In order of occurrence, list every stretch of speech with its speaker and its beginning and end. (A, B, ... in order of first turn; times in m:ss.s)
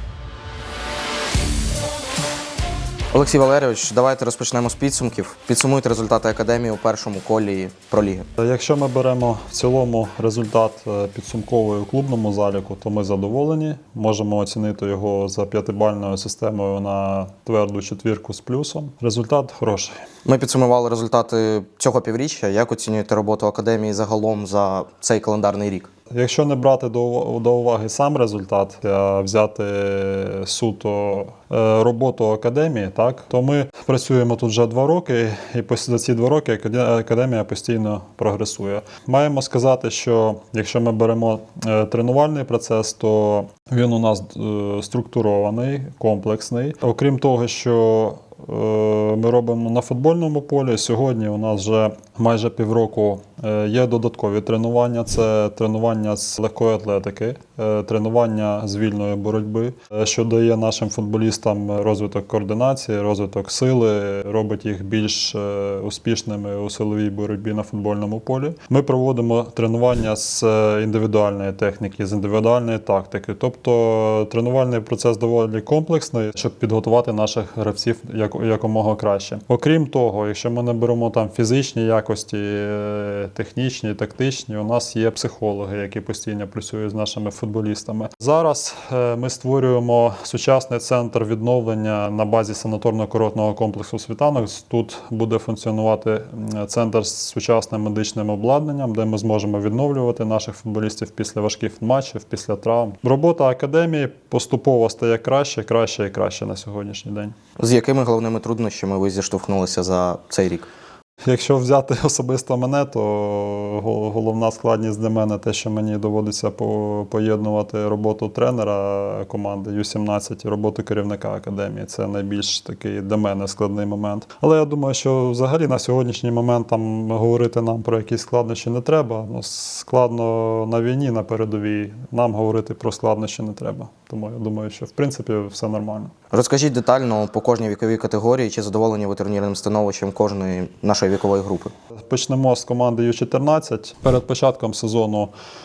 0:03.1-0:08.3 A
0:08.4-0:19.9 B
0:20.2-0:25.9 A
0:26.1-1:47.3 B
1:47.6-1:50.7 A
1:51.2-2:16.1 B
2:16.3-2:21.7 A
2:22.0-2:25.3 B